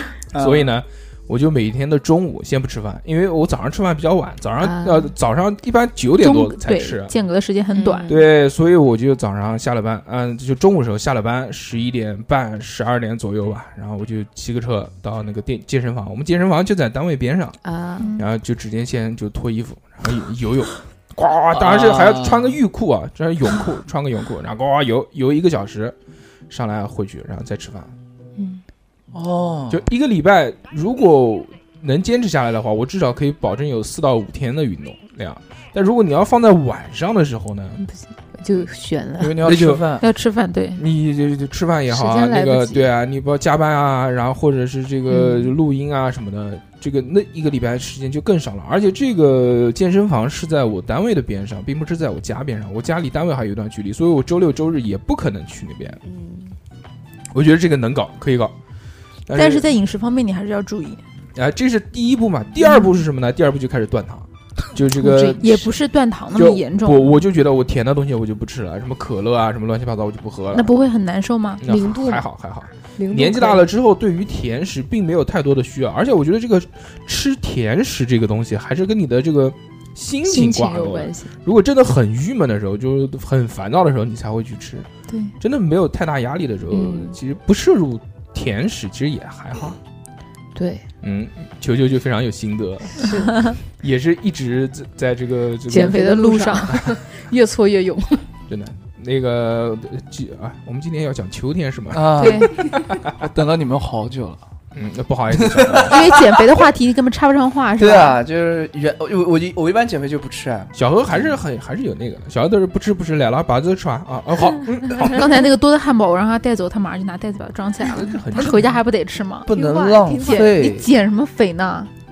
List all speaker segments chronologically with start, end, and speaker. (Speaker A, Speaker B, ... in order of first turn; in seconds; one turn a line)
Speaker A: 0.3-0.7
Speaker B: 0.3-7.1
Speaker C: 4.6-5.1
Speaker D: 6.2-8.1
Speaker C: 7.7-8.2
Speaker B: 8.1-17.6
Speaker C: 17.6-18.1
Speaker D: 18.0-18.2
Speaker B: 18.2-25.9
Speaker A: 21.5-22.6
Speaker B: 26.5-27.9
Speaker C: 28.4-28.6
Speaker A: 29.1-29.8
Speaker B: 29.7-37.8
Speaker C: 37.8-39.4
Speaker A: 39.2-40.0
Speaker B: 39.4-39.8
Speaker D: 40.0-40.8
Speaker B: 40.8-56.0
Speaker C: 41.9-42.9
Speaker C: 45.1-45.5
Speaker C: 56.0-56.5
Speaker B: 57.3-58.5
Speaker B: 59.3-59.7
Speaker D: 59.3-61.0
Speaker B: 61.4-65.7
Speaker C: 65.0-65.4
Speaker D: 65.0-67.2
Speaker B: 66.3-70.7
Speaker D: 70.5-71.6
Speaker B: 71.6-84.9
Speaker C: 71.6-72.3
Speaker C: 73.0-73.6
Speaker C: 80.2-81.3
Speaker B: 85.4-89.8
Speaker C: 86.7-87.2
Speaker C: 90.5-90.8
Speaker B: 91.0-96.1
Speaker C: 92.9-93.4
Speaker C: 95.7-98.3
Speaker D: 95.7-96.7
Speaker B: 98.5-103.1
Speaker A: 101.9-104.4
Speaker D: 102.2-102.5
Speaker B: 104.7-106.0
Speaker A: 105.3-106.2
Speaker D: 105.8-108.2
Speaker A: 107.8-111.4
Speaker B: 110.7-115.3
Speaker D: 114.9-121.9
Speaker B: 117.8-118.8
Speaker A: 119.5-120.9